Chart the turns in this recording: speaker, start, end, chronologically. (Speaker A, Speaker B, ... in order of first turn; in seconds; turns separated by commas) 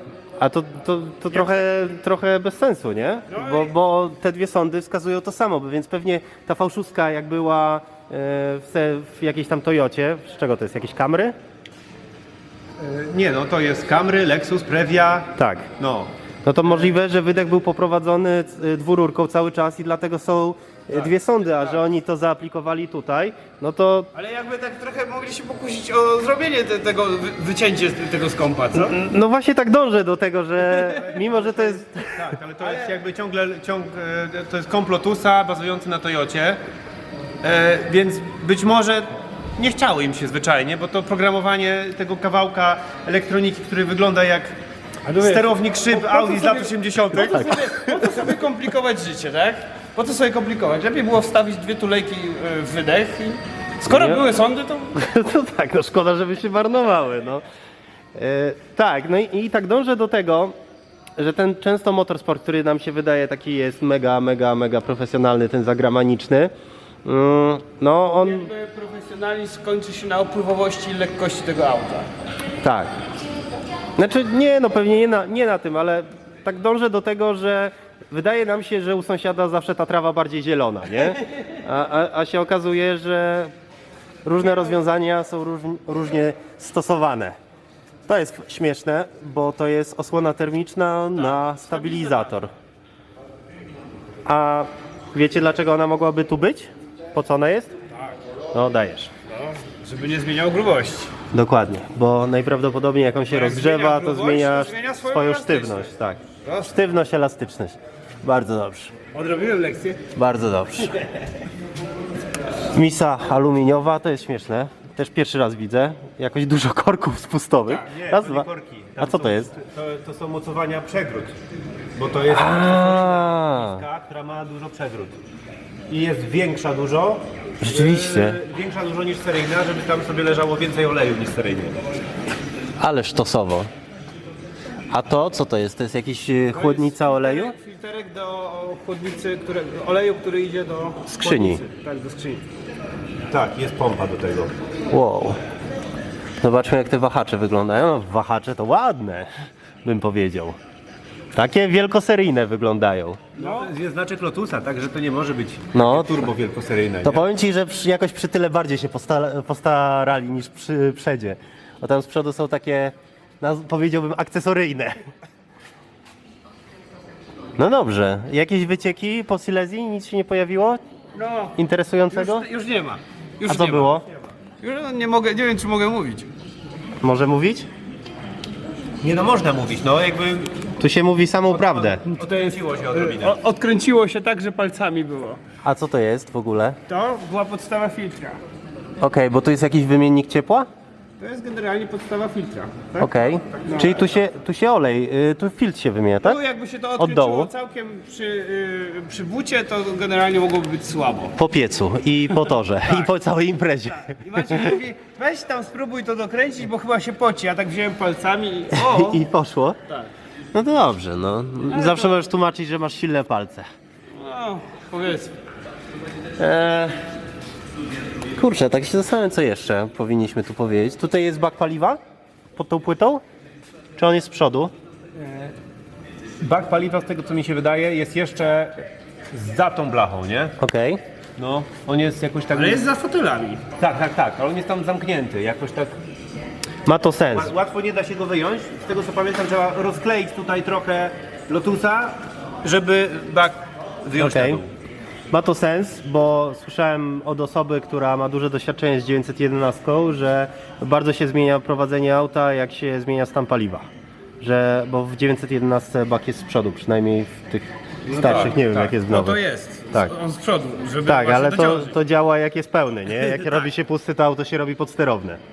Speaker A: 0.4-11.3, Speaker B: 3.3-3.7, Speaker C: 12.8-16.1, Speaker A: 15.3-15.7, Speaker A: 16.4-24.1, Speaker B: 24.1-28.9, Speaker A: 28.7-32.1, Speaker C: 30.9-36.6, Speaker B: 32.6-32.9, Speaker C: 37.4-44.6, Speaker B: 45.0-54.9, Speaker C: 45.2-47.5, Speaker A: 47.3-48.0, Speaker A: 53.8-54.2, Speaker A: 54.9-57.4, Speaker A: 58.1-60.5, Speaker A: 61.2-66.5, Speaker A: 67.0-68.5, Speaker B: 68.1-72.1, Speaker A: 72.6-72.9, Speaker A: 74.0-83.5, Speaker A: 84.2-87.3, Speaker A: 88.1-92.5, Speaker B: 91.3-92.3, Speaker A: 94.2-97.7, Speaker A: 98.5-99.1, Speaker B: 99.3-101.1, Speaker A: 101.3-108.9, Speaker B: 103.3-105.9, Speaker B: 106.4-106.8, Speaker B: 109.1-110.0, Speaker A: 110.1-110.9, Speaker A: 112.7-118.5, Speaker C: 117.7-121.4, Speaker A: 119.0-119.5, Speaker C: 122.0-125.2, Speaker A: 122.3-123.8, Speaker C: 125.9-131.8, Speaker A: 127.6-128.4, Speaker A: 132.8-133.7, Speaker A: 134.9-137.5, Speaker B: 136.5-142.4, Speaker A: 141.1-141.6, Speaker C: 143.3-144.5, Speaker A: 144.9-145.4, Speaker A: 146.4-149.3, Speaker A: 149.8-150.6, Speaker A: 151.3-153.2, Speaker C: 153.3-157.2, Speaker B: 153.3-153.7, Speaker A: 155.7-156.1, Speaker A: 157.0-165.0, Speaker A: 167.6-170.8, Speaker B: 171.1-171.6, Speaker A: 171.6-172.5, Speaker B: 172.1-174.0, Speaker A: 173.4-174.0, Speaker B: 174.6-176.3, Speaker A: 177.0-177.7, Speaker C: 179.0-180.6, Speaker A: 180.8-182.0, Speaker C: 181.5-183.4, Speaker B: 182.1-185.4, Speaker A: 185.6-186.8, Speaker B: 186.9-188.4, Speaker A: 189.0-190.7, Speaker B: 191.2-194.1, Speaker A: 193.0-196.4, Speaker B: 196.2-201.3, Speaker A: 197.0-197.5, Speaker A: 201.3-204.7, Speaker B: 204.0-209.2, Speaker A: 208.7-209.8, Speaker A: 210.5-213.7, Speaker B: 211.7-212.2, Speaker B: 214.1-215.3, Speaker A: 216.4-217.0, Speaker A: 218.3-222.0, Speaker A: 222.6-223.2, Speaker A: 224.0-224.7, Speaker B: 225.2-225.5, Speaker C: 226.4-228.8, Speaker C: 229.3-230.6, Speaker A: 230.6-231.0, Speaker C: 231.4-232.8, Speaker B: 232.5-233.6, Speaker C: 233.8-235.9, Speaker A: 236.8-237.5, Speaker C: 237.3-244.7, Speaker A: 244.2-244.6, Speaker A: 245.3-253.9, Speaker A: 254.4-259.4, Speaker B: 258.1-261.9, Speaker A: 261.1-265.4